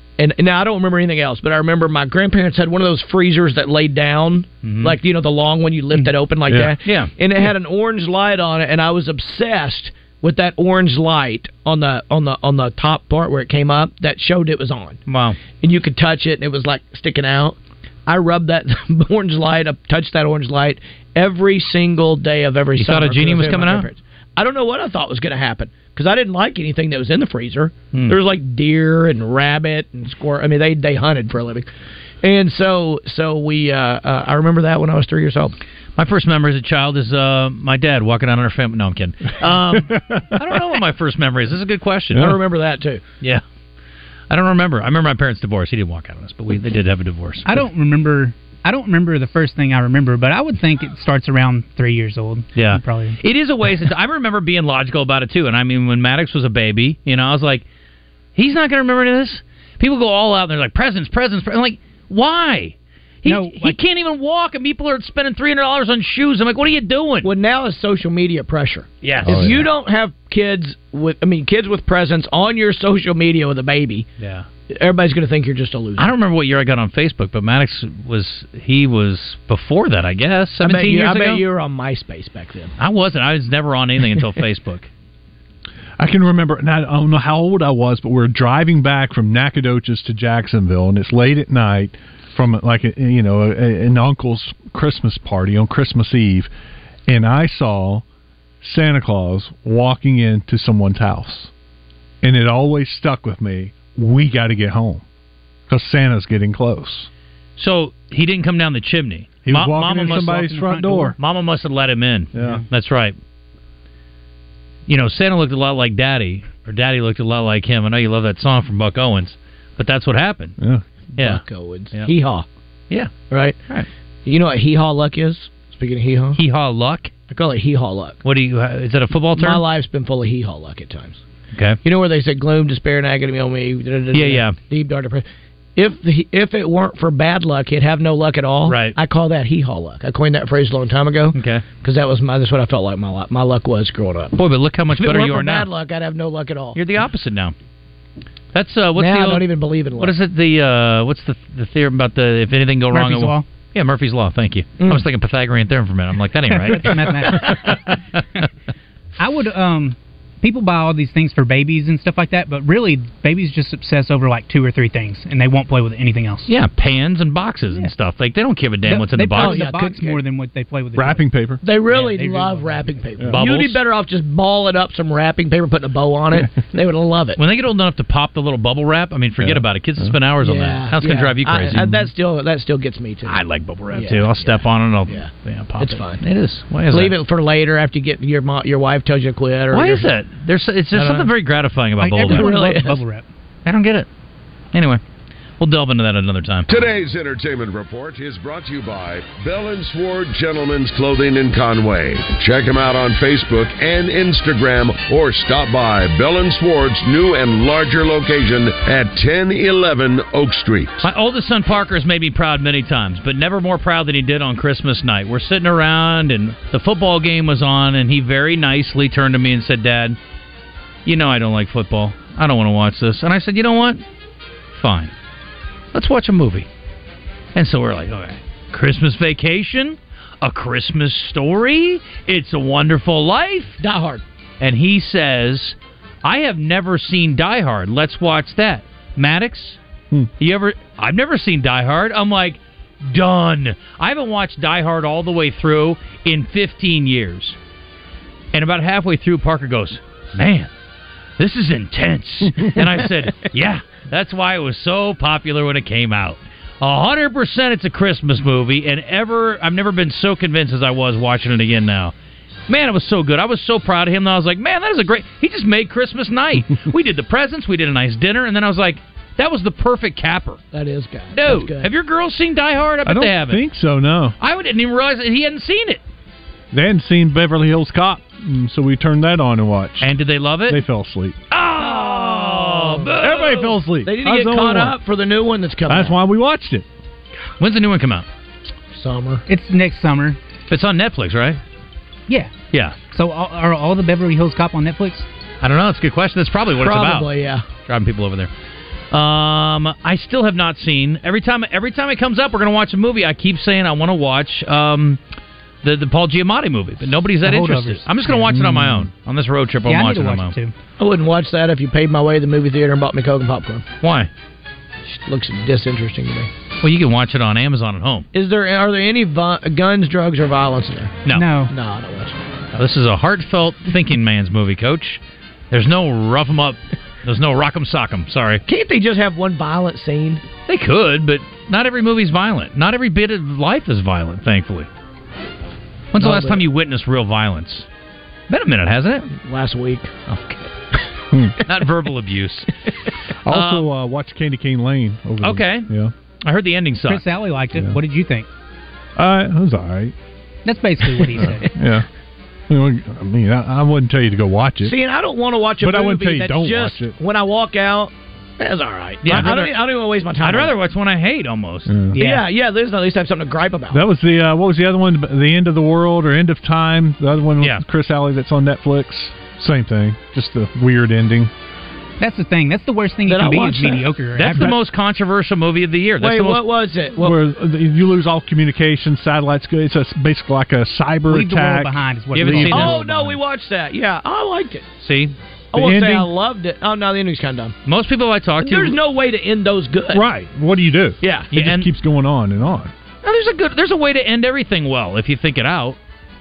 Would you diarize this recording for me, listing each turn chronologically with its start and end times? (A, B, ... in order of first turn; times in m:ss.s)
0:00.2-0:15.0 A
0:04.6-0:05.0 B
0:06.5-0:06.7 C
0:06.8-0:07.1 B
0:15.1-0:15.4 B
0:15.5-0:31.6 A
0:22.8-0:23.9 B
0:27.9-0:28.2 B
0:32.2-0:35.6 A
0:36.0-0:42.3 B
0:39.7-0:40.4 C
0:42.2-0:43.0 A
0:44.3-0:47.6 B
0:47.4-0:53.2 D
0:52.5-0:57.6 B
0:58.3-1:07.3 B
1:03.2-1:03.8 D
1:07.2-1:14.1 A
1:09.0-1:09.6 B
1:09.2-1:09.7 C
1:14.2-1:14.4 B
1:14.7-1:16.1 A
1:16.0-1:21.4 B
1:20.6-1:22.7 A
1:22.8-1:24.9 B
1:26.0-1:36.5 C
1:37.1-1:38.0 C
1:38.6-1:41.5 C
1:42.2-1:45.0 C
1:45.7-1:47.1 C
1:47.6-1:50.5 B
1:49.4-1:51.2 C
1:50.3-1:51.1 D
1:51.2-1:53.2 B
1:52.3-1:52.6 C
1:54.9-2:00.6 B
2:01.2-2:02.1 B
2:01.2-2:02.4 A
2:02.9-2:03.2 B
2:03.3-2:03.6 A
2:04.2-2:06.4 A
2:06.3-2:07.1 B
2:07.3-2:08.2 A
2:08.2-2:09.6 B
2:09.3-2:11.2 A
2:11.5-2:11.8 B
2:11.8-2:15.2 A
2:14.1-2:14.6 B
2:15.8-2:24.4 A
2:18.6-2:19.0 B
2:21.3-2:21.6 B
2:24.3-2:25.7 B
2:24.9-2:26.8 A
2:26.7-2:27.5 B
2:28.5-2:38.4 B
2:29.0-2:30.2 A
2:32.9-2:33.4 D
2:36.5-2:37.8 D
2:39.2-2:46.5 D
2:46.5-2:49.6 B
2:48.8-2:51.3 D
2:49.4-2:50.2 A
2:51.0-2:51.6 C
2:51.6-2:57.4 A
2:51.9-2:53.0 D
2:53.3-2:53.8 B
2:57.4-3:02.0 B
2:59.4-3:00.1 C
3:00.4-3:03.4 A
3:03.2-3:07.1 B
3:03.9-3:06.2 A
3:06.9-3:10.1 A
3:09.7-3:12.5 B
3:10.9-3:11.3 A
3:12.0-3:13.2 D
3:12.2-3:13.0 A
3:13.6-3:14.1 B
3:14.7-3:15.0 B
3:15.6-3:16.6 B
3:16.7-3:31.0 E
3:31.0-3:40.2 B
3:41.0-3:44.0 B
3:44.7-3:45.1 B
3:45.9-3:46.7 B
3:47.5-3:53.8 B
3:53.8-3:54.2 A
3:54.6-3:59.8 B
4:00.4-4:07.6 B
4:08.5-4:10.7 B
4:11.4-4:22.1 B
4:22.7-4:30.6 B
4:30.7-4:31.9 A
4:31.3-4:33.6 B
4:33.0-4:34.3 C
4:34.4-4:36.0 B
4:36.7-4:40.1 C
4:40.0-4:40.8 B
4:40.7-4:41.4 C
4:41.5-4:43.7 B
4:41.8-4:46.2 A
4:43.2-4:45.0 C
4:45.9-4:46.8 C
4:47.6-4:48.3 B
4:48.9-4:49.4 A
4:49.5-4:50.4 D
4:50.7-4:51.6 B
4:53.1-4:55.3 D
4:55.6-4:57.3 B
4:56.8-4:57.6 A
4:57.8-4:58.5 B
4:59.1-5:05.2 B
5:05.8-5:10.5 B
5:07.4-5:08.7 D
5:08.5-5:09.1 C
5:09.8-5:10.7 D
5:11.0-5:13.8 A
5:14.0-5:14.3 B
5:15.1-5:16.5 A
5:16.8-5:18.3 B
5:18.3-5:21.1 A
5:21.3-5:21.7 D
5:21.7-5:22.4 A
5:22.7-5:28.6 B
5:28.6-5:30.4 A
5:30.7-5:34.9 B
5:36.1-5:37.9 B
5:36.2-5:36.6 A
5:38.5-5:39.3 B
5:39.3-5:40.2 A
5:40.3-5:40.7 B
5:41.3-5:41.6 C
5:41.6-5:42.7 B
5:43.4-5:46.1 C
5:43.5-5:43.9 B
5:45.4-5:45.9 B
5:46.4-5:47.2 B
5:47.1-5:48.5 D
5:47.7-5:48.0 C
5:49.2-5:50.1 C
5:50.6-5:51.7 D
5:51.3-5:52.1 C
5:52.7-5:54.9 C
5:54.8-6:00.8 A
5:55.8-5:57.1 C
5:59.2-5:59.8 B
6:00.4-6:01.9 B
6:01.9-6:02.2 C
6:02.1-6:02.4 D
6:02.2-6:04.0 A
6:03.9-6:11.5 C
6:12.2-6:14.7 D
6:13.2-6:14.0 A
6:14.4-6:16.6 B
6:14.5-6:14.7 C
6:16.2-6:17.4 A
6:17.2-6:23.3 C
6:21.3-6:23.1 D
6:22.3-6:23.0 B
6:22.7-6:24.8 A
6:25.0-6:25.3 B
6:25.7-6:27.7 A
6:25.7-6:26.3 C
6:27.8-6:29.0 B
6:28.6-6:30.3 A
6:30.1-6:32.9 C
6:31.2-6:31.5 A
6:31.5-6:31.9 B
6:33.2-6:36.0 B